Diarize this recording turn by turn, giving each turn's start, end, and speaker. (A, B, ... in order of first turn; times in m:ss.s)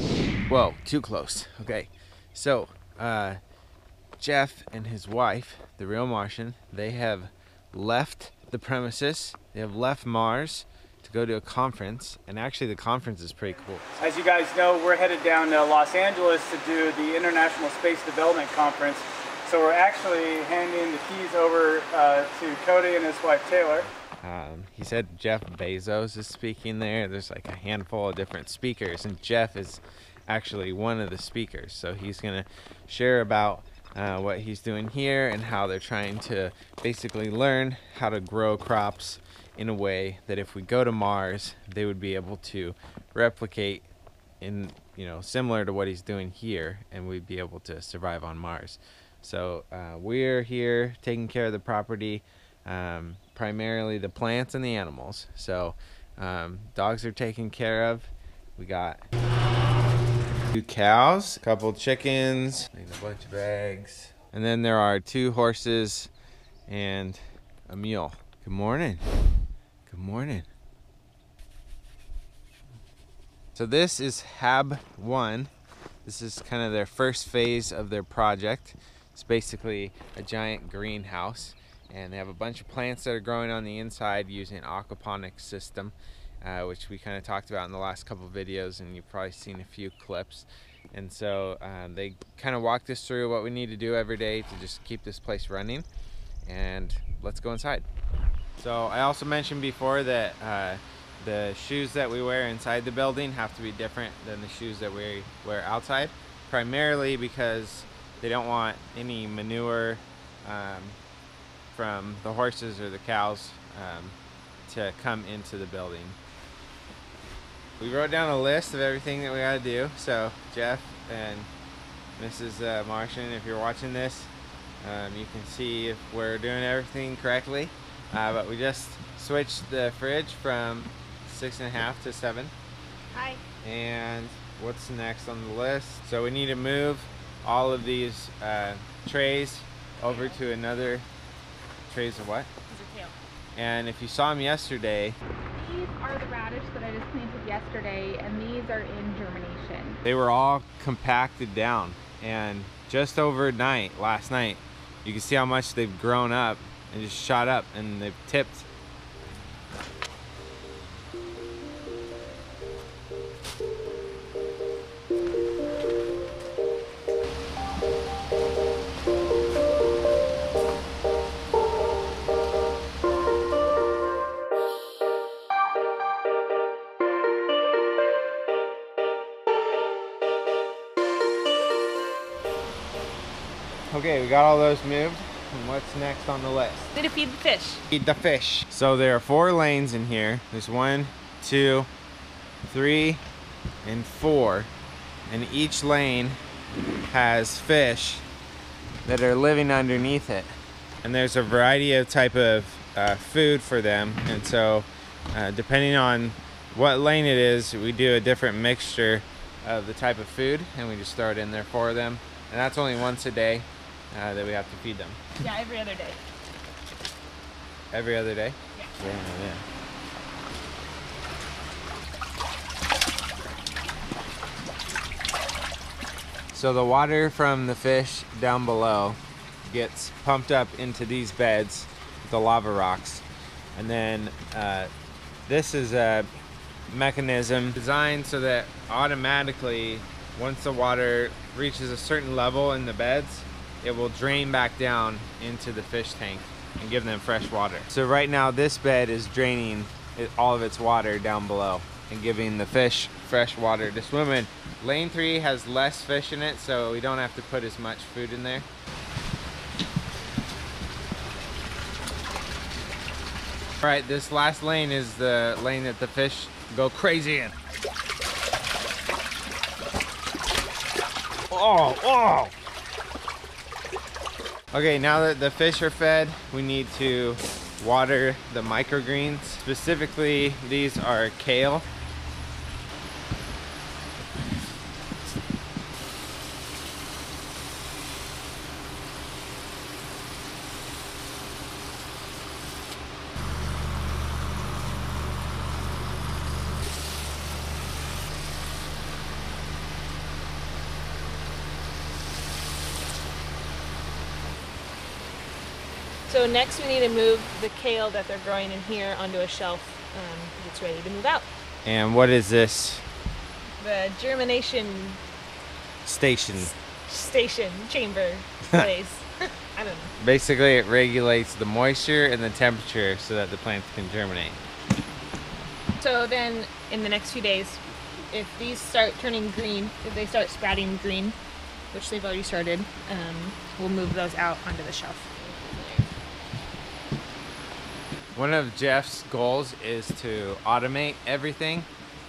0:00.5-0:03.4 A
0:04.2-0:13.9 A
0:14.0-0:23.8 B
0:24.2-0:43.9 A
0:44.4-0:59.0 A
1:00.5-1:06.1 A
1:06.7-1:09.0 A
1:09.8-1:10.5 A
1:13.5-1:15.5 A
1:16.0-1:35.8 A
1:36.4-1:37.8 A
1:38.6-1:51.0 A
1:51.7-1:54.2 A
1:54.7-1:56.2 A
1:57.8-2:01.5 A
2:02.2-2:12.5 A
2:13.1-2:13.4 C
2:13.6-2:21.0 A
2:21.9-2:22.5 A
2:22.7-2:23.1 C
2:23.6-2:25.2 A
2:25.6-2:30.0 D
2:30.0-2:38.7 A
3:03.9-3:06.9 A
3:06.9-3:07.8 C
3:07.9-3:11.9 A
3:12.6-3:13.2 A
3:13.8-3:14.7 A
3:15.3-3:16.4 A
3:17.1-3:18.2 A
3:19.0-3:20.5 A
3:21.0-3:35.2 A
3:35.4-3:36.2 C
3:37.9-3:39.6 A
3:46.5-3:53.2 A
3:53.7-3:54.9 A
3:55.5-3:56.3 A
3:56.9-4:18.7 A
4:23.8-4:27.5 A
4:31.5-4:32.5 A
4:34.7-4:41.8 A
5:06.3-5:11.5 C
5:11.8-5:13.0 A
5:13.8-5:15.2 C
5:16.0-5:16.7 A
5:17.1-5:20.1 C
5:20.2-5:24.6 A
5:26.0-5:31.4 C
5:31.9-5:36.1 C
5:38.4-5:41.9 A